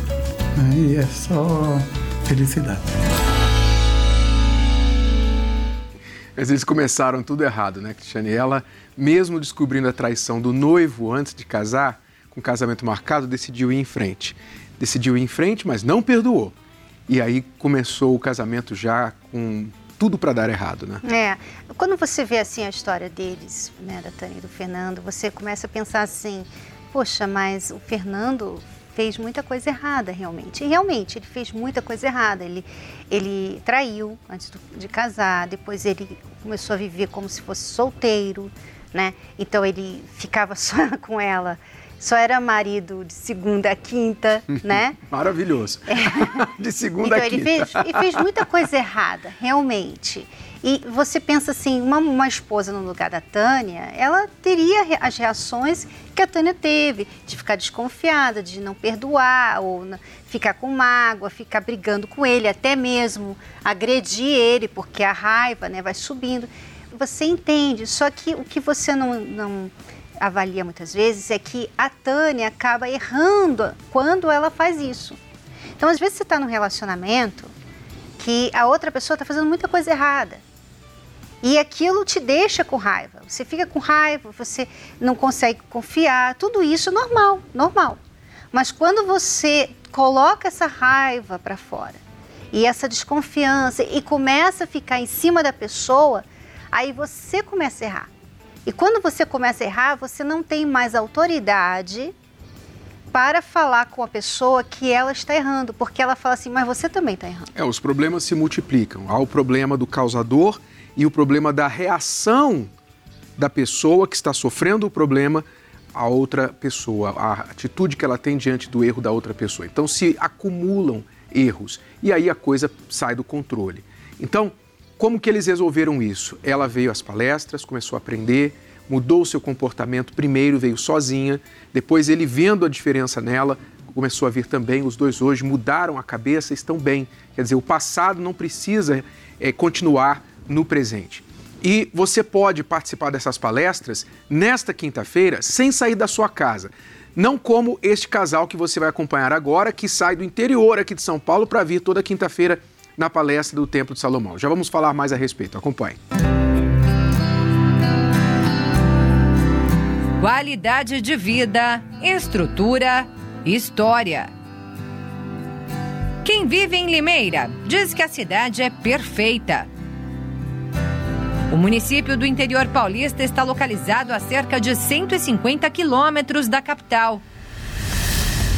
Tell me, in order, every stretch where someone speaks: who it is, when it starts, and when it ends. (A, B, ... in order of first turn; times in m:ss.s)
0:00.5-0:02.8 A
0:06.4-0:16.5 B
0:17.1-0:21.0 B
0:21.0-0:45.0 C
0:45.1-0:48.1 B
0:46.0-0:46.4 C
0:47.0-1:15.2 C
1:15.8-1:17.5 C
1:18.2-1:20.4 C
1:21.4-1:28.0 C
1:28.5-1:32.0 C
1:32.5-1:38.1 C
1:38.6-1:42.1 C
1:43.1-1:47.5 C
1:47.5-1:52.7 B
1:53.4-2:36.0 B
2:40.2-2:44.3 D
2:46.2-2:49.7 D
2:51.5-2:57.2 D